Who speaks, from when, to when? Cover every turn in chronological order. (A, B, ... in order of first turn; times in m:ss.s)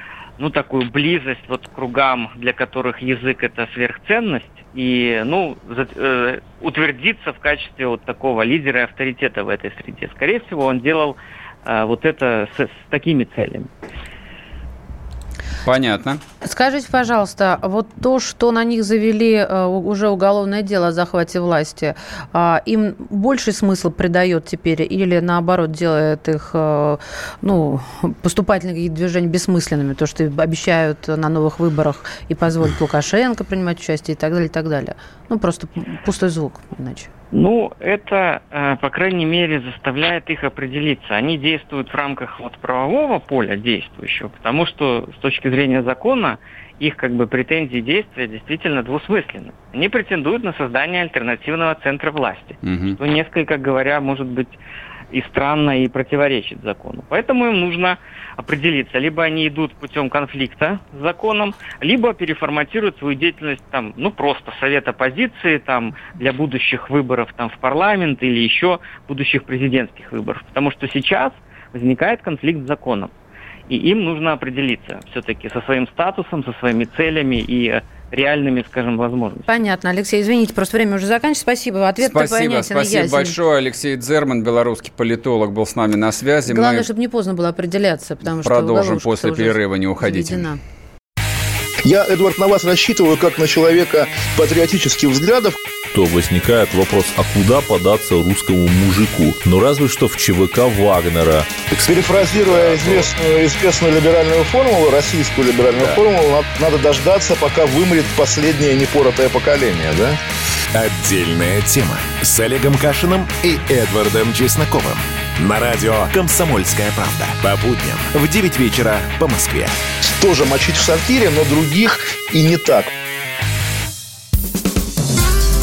0:00.4-0:13.7 A
0:15.6-0:16.2 B
0:16.4-0:37.1 C
0:37.3-0:54.6 A
0:52.6-0:53.0 B
0:55.1-1:13.1 A
1:13.7-1:19.5 A
1:19.5-1:23.4 C
1:22.0-1:26.9 B
1:26.5-1:30.6 C
1:28.4-1:30.5 B
1:31.8-1:35.6 D
1:35.9-1:41.7 E
1:41.7-1:50.2 D
1:42.4-1:43.1 E
1:50.7-1:59.8 F
2:00.0-2:02.9 D